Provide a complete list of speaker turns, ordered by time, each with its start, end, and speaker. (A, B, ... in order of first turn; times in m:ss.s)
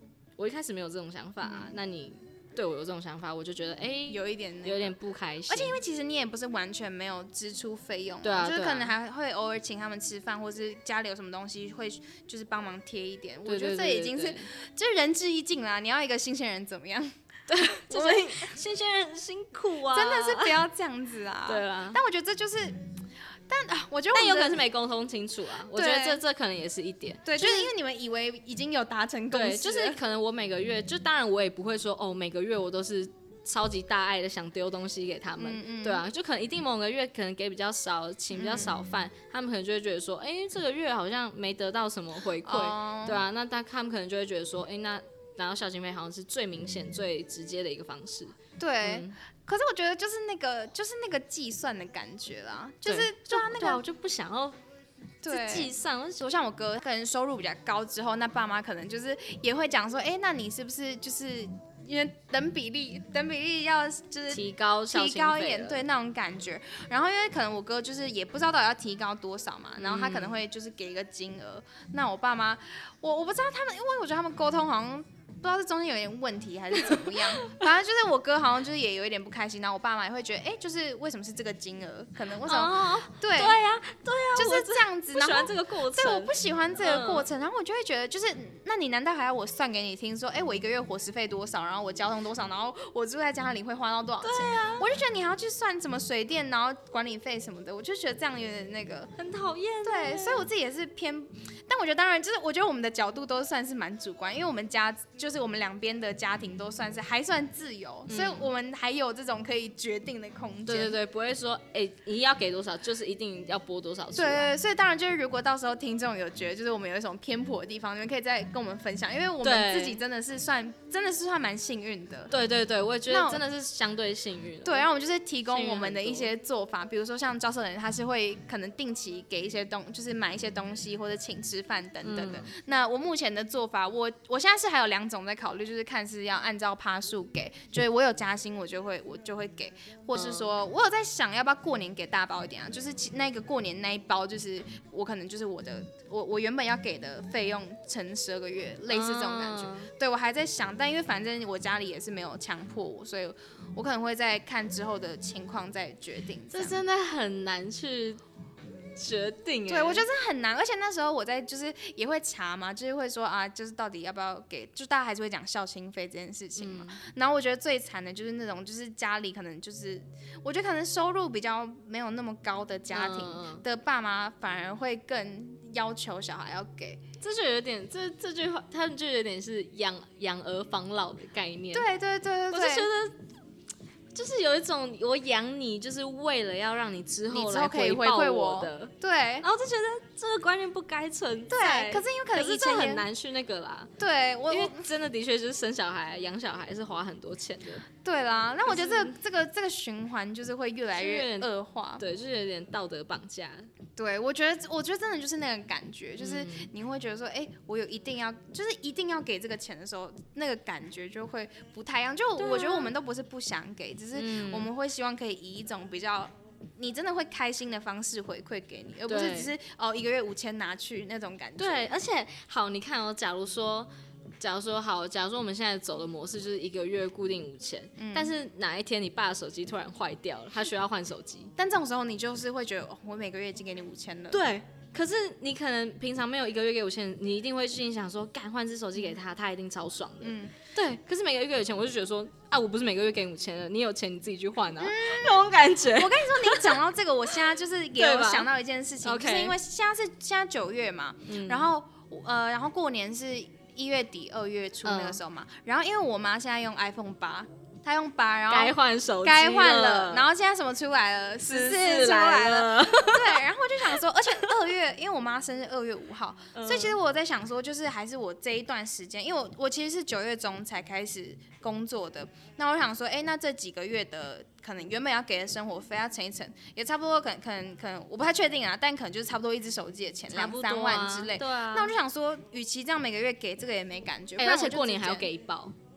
0:00.4-0:05.8 A
0:01.4-0:01.8 B
0:04.1-0:04.9 B
0:05.5-0:17.1 B
0:08.2-0:08.9 A
0:13.4-0:14.5 A
0:17.5-0:20.6 A
0:17.7-0:18.5 B
0:19.9-0:22.8 B
0:21.4-0:22.0 A
0:23.5-0:24.6 B
0:24.1-0:27.7 A
0:25.7-0:26.2 B
0:27.2-0:30.0 B
0:29.3-0:49.2 A
0:35.4-0:36.0 B
0:38.3-0:38.7 B
0:42.4-0:43.2 B
0:48.6-0:53.8 B
0:52.8-0:54.6 A
0:55.2-1:23.6 B
0:55.3-0:56.3 A
1:04.3-1:05.8 A
1:09.8-1:10.4 A
1:16.8-1:17.6 A
1:22.4-1:27.2 A
1:24.3-1:39.1 B
1:34.2-1:34.8 A
1:39.2-1:40.5 A
1:39.8-1:51.0 B
1:48.1-1:48.5 A
1:50.7-1:54.5 A
1:54.1-2:02.3 B
1:59.4-2:00.0 A
2:02.3-2:04.8 A
2:03.1-2:03.4 B
2:04.6-2:36.8 B
2:05.5-2:06.3 A
2:12.0-2:12.5 A
2:20.1-2:20.5 A
2:28.9-2:29.9 A
2:36.5-2:38.2 A
2:39.0-2:40.1 A
2:39.7-2:57.0 B
2:46.6-2:47.0 A
2:52.9-2:53.6 A
2:57.2-3:01.8 A
3:01.7-3:02.9 B
3:02.5-3:03.2 A
3:04.1-3:13.9 A
3:07.3-3:09.4 B
3:11.5-3:13.0 B
3:14.0-3:14.8 B
3:14.5-3:17.8 A
3:18.0-3:22.0 B
3:18.6-3:19.1 A
3:20.9-3:23.7 A
3:24.0-3:41.9 B
3:26.2-3:26.7 A
3:32.4-3:32.9 A
3:34.1-3:34.7 A
3:39.1-3:39.5 A
3:41.6-3:51.5 A
3:48.0-3:48.3 B
3:51.6-3:54.4 B
3:54.3-4:06.8 A
4:00.2-4:00.5 B
4:04.8-4:45.3 B
4:08.0-4:08.5 A
4:09.0-4:09.6 A
4:11.3-4:11.7 A
4:14.8-4:15.2 A
4:18.5-4:20.3 A
4:21.4-4:23.4 A
4:26.5-4:27.0 A
4:40.3-4:41.9 A
4:44.4-4:45.7 A